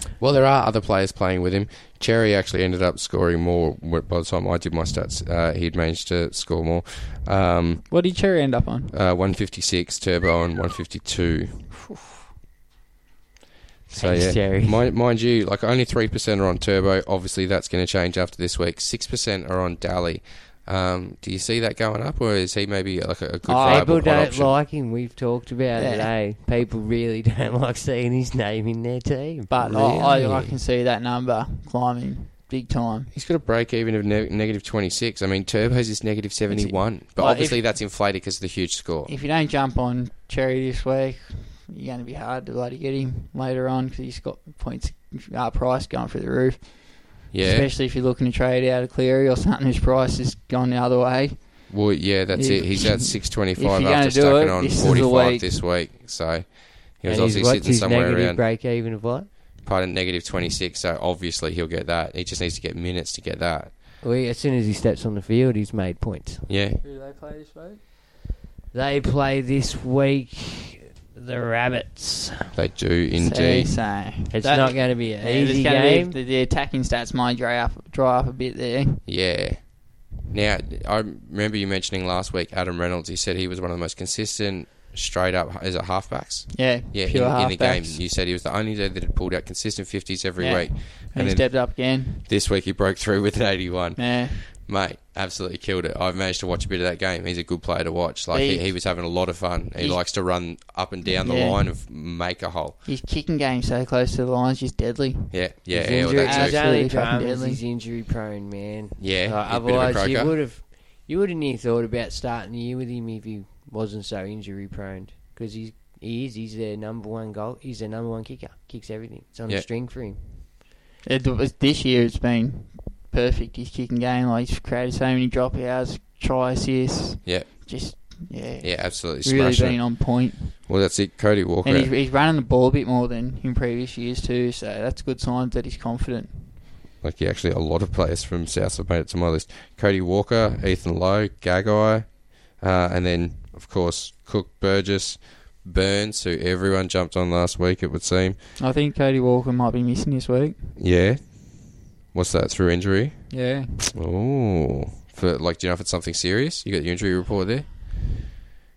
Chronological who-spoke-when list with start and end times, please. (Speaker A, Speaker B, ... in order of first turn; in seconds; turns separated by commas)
Speaker A: 0.2-7.9, Speaker B: 7.9-8.9, Speaker A: 8.9-11.7, Speaker B: 11.7-12.1, Speaker C: 13.9-14.8, Speaker A: 13.9-24.6, Speaker B: 23.5-23.9, Speaker C: 23.6-30.5, Speaker B: 25.8-26.1, Speaker B: 29.5-33.1, Speaker A: 29.6-30.4, Speaker A: 33.1-39.1, Speaker B: 36.5-37.6, Speaker B: 39.1-51.8, Speaker A: 47.3-47.7, Speaker A: 51.7-58.4, Speaker B: 52.3-55.6, Speaker C: 57.1-59.3, Speaker A: 59.6-63.7, Speaker C: 64.0-66.5, Speaker A: 66.5-66.8, Speaker B: 66.8-67.8, Speaker C: 68.7-72.5, Speaker A: 72.5-73.9, Speaker B: 73.2-79.0, Speaker C: 74.3-76.2, Speaker A: 79.1-102.8, Speaker B: 86.5-88.0, Speaker B: 90.4-92.2, Speaker B: 94.0-94.4, Speaker B: 98.3-98.8, Speaker B: 99.8-100.0, Speaker B: 101.2-101.7, Speaker B: 102.8-105.4, Speaker A: 105.3-106.6, Speaker C: 105.7-120.2, Speaker B: 106.2-107.6, Speaker A: 109.0-110.4, Speaker B: 121.0-130.7, Speaker A: 128.6-131.9, Speaker B: 131.6-136.6, Speaker A: 137.0-148.4, Speaker B: 148.6-150.7, Speaker A: 150.8-158.0, Speaker B: 153.3-153.8